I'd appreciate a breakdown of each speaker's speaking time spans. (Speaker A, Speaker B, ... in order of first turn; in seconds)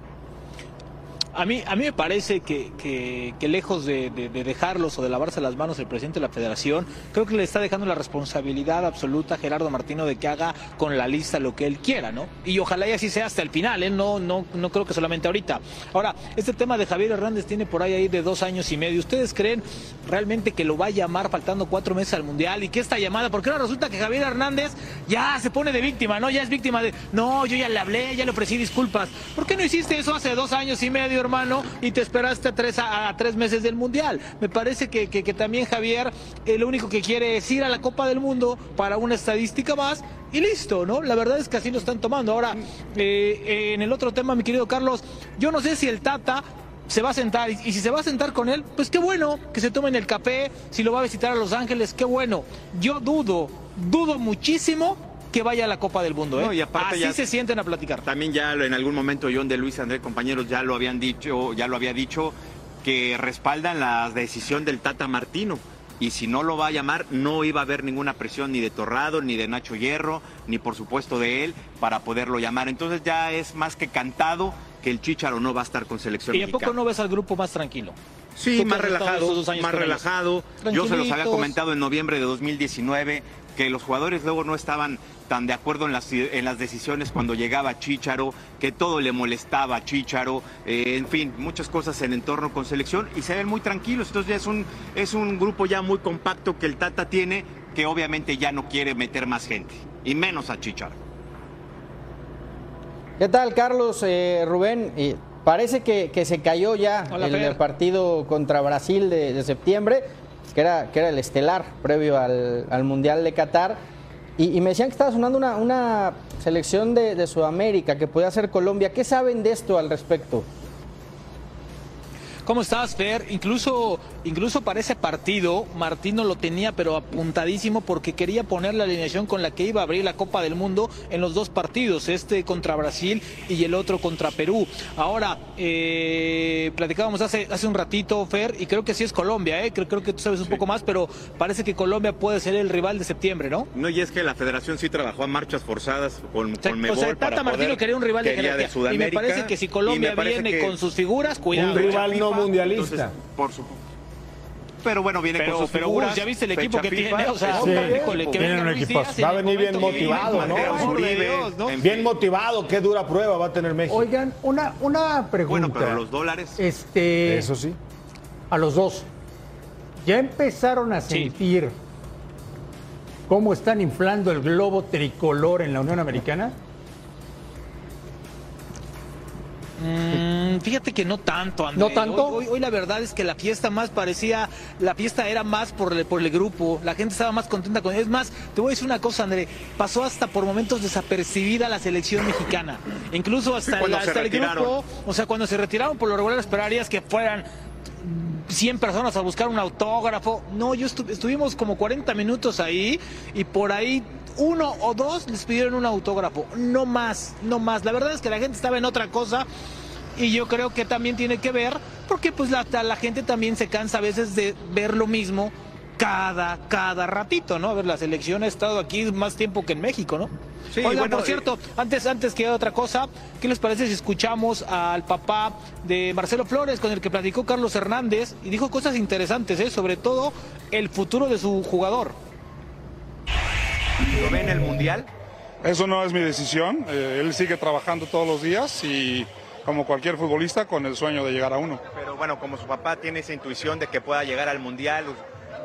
Speaker A: 1.3-58.1, 76.3-78.0, 78.5-81.5, 107.1-107.6, 122.5-143.7, 146.6-152.2, 155.3-161.8, 179.8-197.4, 198.0-209.5, 210.2-232.2
Speaker B: 56.4-57.2, 58.0-76.8, 78.4-101.0, 143.7-150.8, 151.5-153.8, 154.8-158.5, 159.8-162.1, 165.5-166.6, 193.7-194.8, 220.8-221.4, 234.1-235.1, 241.9-245.2
Speaker C: 103.2-113.8, 114.4-120.5
Speaker D: 151.5-153.1, 157.7-158.3, 159.2-161.0, 161.7-164.1, 167.2-167.8
Speaker E: 157.6-159.2, 160.3-160.7, 163.9-166.0, 166.6-167.5, 168.5-169.1, 170.0-171.8, 173.3-176.6, 181.7-182.4
Speaker F: 235.6-241.8